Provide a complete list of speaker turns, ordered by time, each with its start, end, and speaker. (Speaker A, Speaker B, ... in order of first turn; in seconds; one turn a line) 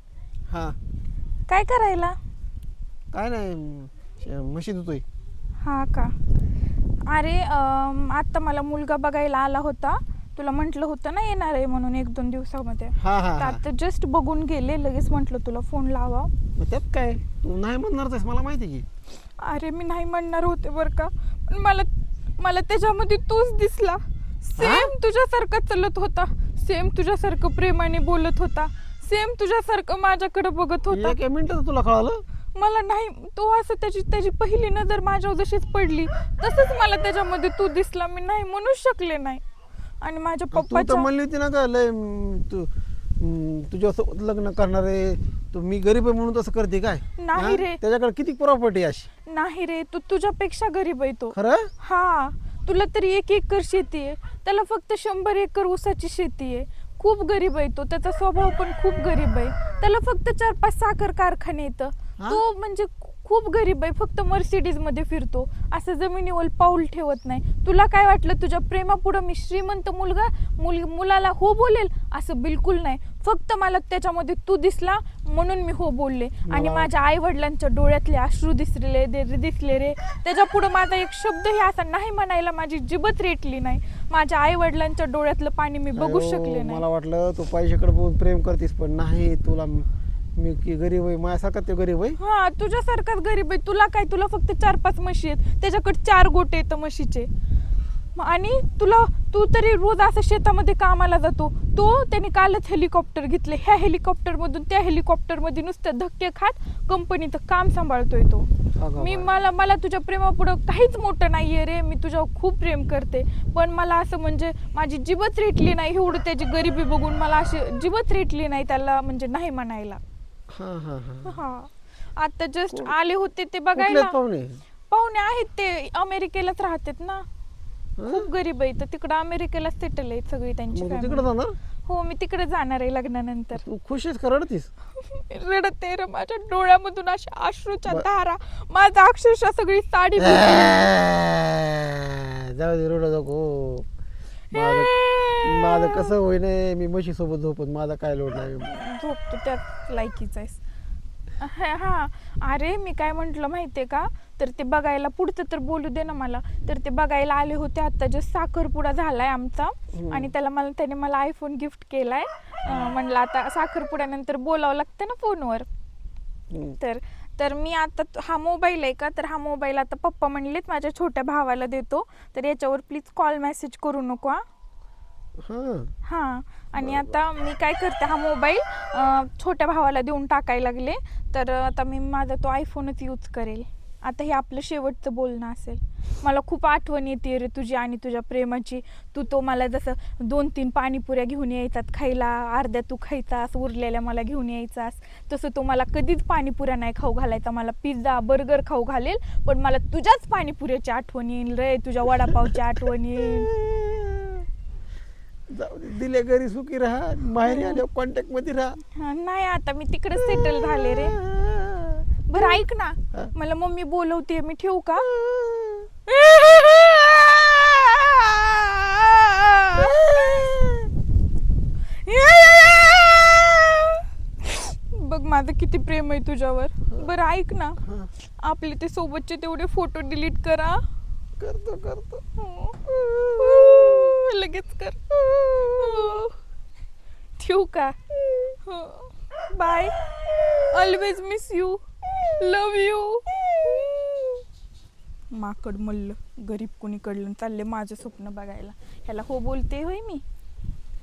Speaker A: 0.5-0.8
Speaker B: 1.5-2.1
Speaker A: 3.1-5.0
Speaker B: 5.6-6.1
Speaker B: 7.1-16.3
Speaker A: 13.0-13.6
Speaker A: 16.6-18.9
Speaker B: 19.4-21.9
Speaker B: 22.4-31.2
Speaker A: 24.6-24.9
Speaker A: 30.9-32.2
Speaker B: 32.5-39.4
Speaker B: 40.0-41.1
Speaker A: 40.5-49.1
Speaker B: 47.2-47.8
Speaker B: 49.3-86.8
Speaker A: 51.3-51.7
Speaker A: 62.2-62.4
Speaker A: 76.5-76.9
Speaker A: 85.9-92.2
Speaker B: 92.2-97.3
Speaker B: 98.1-120.0
Speaker A: 108.8-109.3
Speaker A: 120.5-121.4
Speaker B: 121.2-124.2
Speaker A: 122.7-122.9
Speaker A: 123.7-124.6
Speaker B: 124.9-127.2
Speaker A: 128.0-128.3
Speaker B: 128.1-131.3
Speaker A: 130.7-131.6
Speaker B: 131.8-133.6
Speaker A: 133.5-134.7
Speaker B: 134.9-140.8
Speaker A: 140.2-143.9
Speaker A: 144.5-148.7
Speaker B: 144.5-146.1
Speaker B: 148.6-150.6
Speaker B: 151.4-165.7
Speaker A: 159.9-160.3
Speaker A: 166.5-166.8
Speaker B: 166.8-174.4
Speaker A: 175.4-175.9
Speaker B: 176.0-203.5
Speaker A: 176.8-177.2
Speaker A: 202.3-202.6
Speaker A: 203.2-204.4
Speaker A: 205.5-208.8
Speaker B: 207.4-207.8
Speaker B: 208.9-211.2
Speaker A: 210.2-212.6
Speaker B: 212.3-215.1
Speaker A: 215.0-215.9
Speaker B: 216.1-220.5
Speaker A: 219.7-220.9
Speaker B: 222.0-230.8
Speaker A: 227.8-228.1
Speaker A: 231.4-232.2
Speaker B: 232.4-232.8
Speaker A: 232.8-234.0
Speaker B: 233.4-235.0
Speaker A: 235.1-236.2
Speaker B: 235.7-236.3
Speaker B: 237.4-237.9
Speaker B: 238.6-244.3
Speaker B: 245.3-250.2